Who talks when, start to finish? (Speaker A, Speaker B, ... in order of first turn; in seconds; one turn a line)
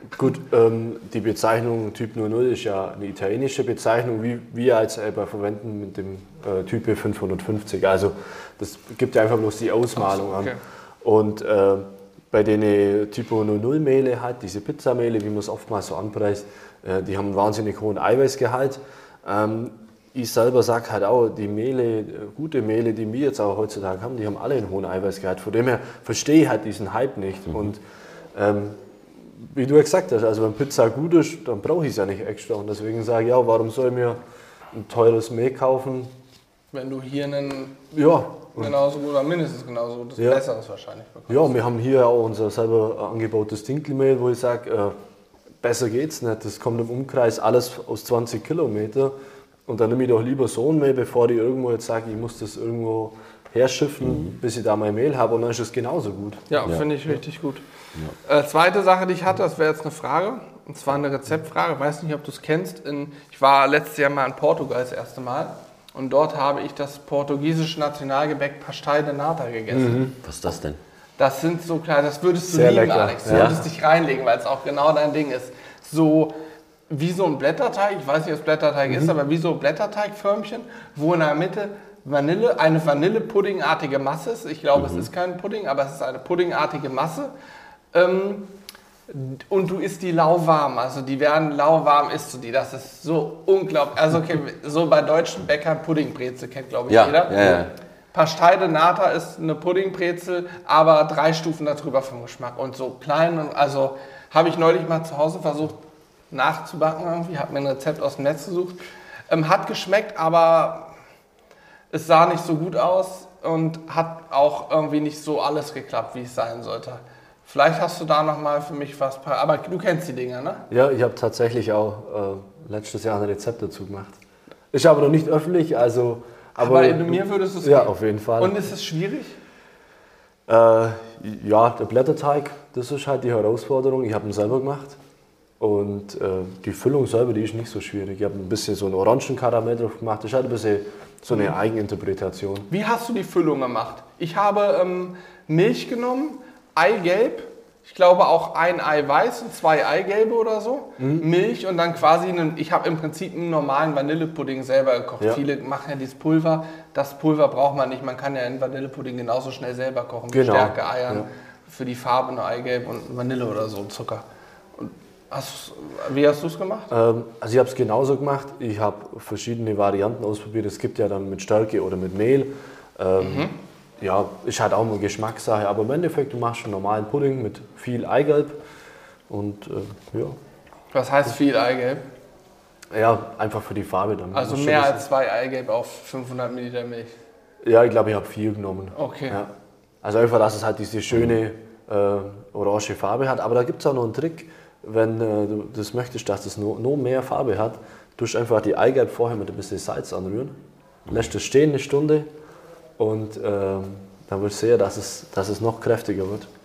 Speaker A: 0.1-27.8
Speaker B: 9.9-10.6
Speaker A: 28.3-34.2
Speaker A: 34.7-36.1
Speaker B: 36.7-37.8
Speaker A: 37.9-38.8
Speaker B: 38.6-41.6
Speaker A: 40.2-40.4
Speaker A: 41.3-44.9
Speaker A: 45.6-49.1
Speaker A: 49.6-56.5
Speaker C: 54.0-54.3
Speaker B: 56.5-57.6
Speaker B: 58.2-70.1
Speaker A: 69.7-70.2
Speaker C: 70.2-70.8
Speaker B: 71.2-76.4
Speaker A: 72.5-73.6
Speaker C: 73.3-73.6
Speaker B: 76.9-87.3
Speaker A: 78.9-79.1
Speaker C: 84.8-85.1
Speaker B: 87.9-88.5
Speaker B: 89.1-105.8
Speaker C: 96.9-97.7
Speaker B: 106.3-110.9
Speaker B: 111.9-120.7
Speaker A: 120.7-124.2
Speaker A: 124.7-128.6
Speaker B: 126.6-129.4
Speaker A: 130.5-135.0
Speaker A: 135.6-142.7
Speaker B: 142.7-164.2
Speaker A: 151.0-151.3
Speaker A: 160.3-161.3
Speaker B: 164.8-166.9
Speaker A: 166.9-178.6
Speaker B: 173.2-173.6
Speaker A: 179.3-180.4
Speaker B: 180.9-182.0
Speaker A: 182.9-185.0
Speaker B: 184.3-187.2
Speaker A: 187.6-189.5
Speaker B: 188.9-189.4
Speaker A: 190.0-200.5
Speaker A: 201.1-202.3
Speaker A: 203.0-206.5